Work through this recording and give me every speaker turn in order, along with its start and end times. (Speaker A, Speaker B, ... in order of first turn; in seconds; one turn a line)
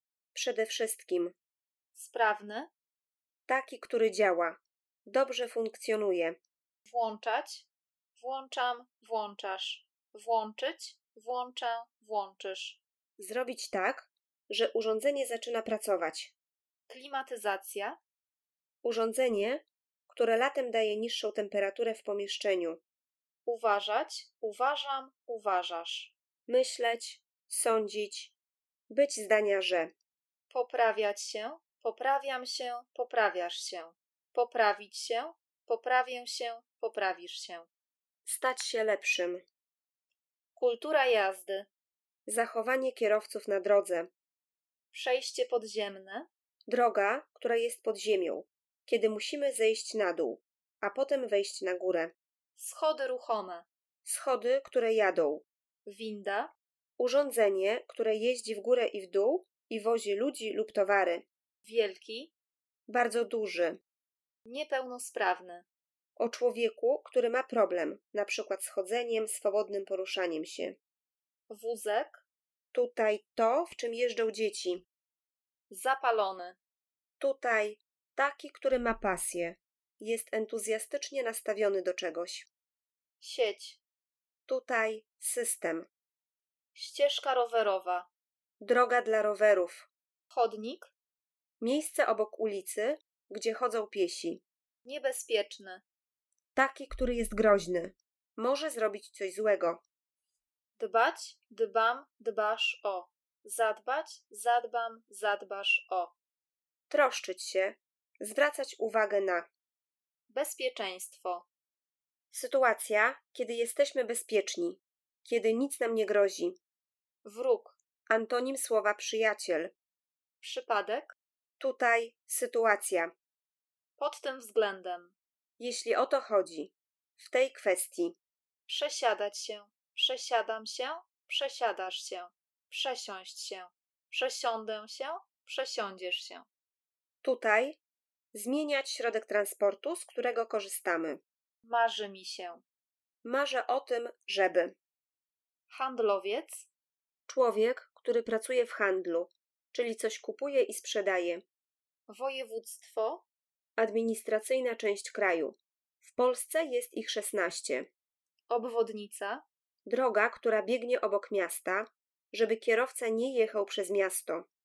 Speaker A: 0.3-1.3
Speaker B: 1.9-2.7
Speaker A: 3.5-6.4
Speaker B: 6.9-12.8
Speaker A: 13.2-16.3
Speaker B: 16.9-18.0
Speaker A: 18.8-22.8
Speaker B: 23.5-26.1
Speaker A: 26.5-28.4
Speaker A: 28.9-29.9
Speaker B: 30.5-37.7
Speaker A: 38.2-39.4
Speaker B: 40.6-41.7
Speaker A: 42.3-44.1
Speaker B: 44.9-46.3
Speaker A: 46.7-52.1
Speaker B: 52.6-53.7
Speaker A: 54.0-55.5
Speaker B: 55.9-56.5
Speaker A: 57.0-61.2
Speaker B: 61.6-62.3
Speaker A: 62.9-63.8
Speaker B: 64.5-65.7
Speaker A: 66.2-70.8
Speaker B: 71.5-72.2
Speaker A: 72.7-74.8
Speaker B: 75.7-76.6
Speaker A: 77.2-82.5
Speaker B: 83.2-83.8
Speaker A: 84.5-85.9
Speaker B: 86.7-88.1
Speaker A: 88.6-89.9
Speaker B: 90.3-90.9
Speaker A: 91.6-94.4
Speaker B: 94.8-95.8
Speaker A: 96.5-99.8
Speaker B: 100.8-106.1
Speaker A: 106.9-109.5
Speaker B: 110.3-111.5
Speaker A: 112.3-116.6
Speaker B: 117.2-117.8
Speaker A: 118.1-119.7
Speaker B: 120.4-121.2
Speaker A: 121.6-123.1
Speaker B: 124.0-125.2
Speaker A: 125.6-128.2
Speaker B: 128.7-136.5
Speaker A: 137.2-137.8
Speaker A: 138.3-141.2
Speaker B: 141.6-142.6
Speaker A: 143.2-144.8
Speaker B: 145.7-146.7
Speaker A: 147.3-151.4
Speaker B: 152.1-153.2
Speaker A: 153.8-157.9
Speaker B: 158.5-159.4
Speaker A: 159.9-164.4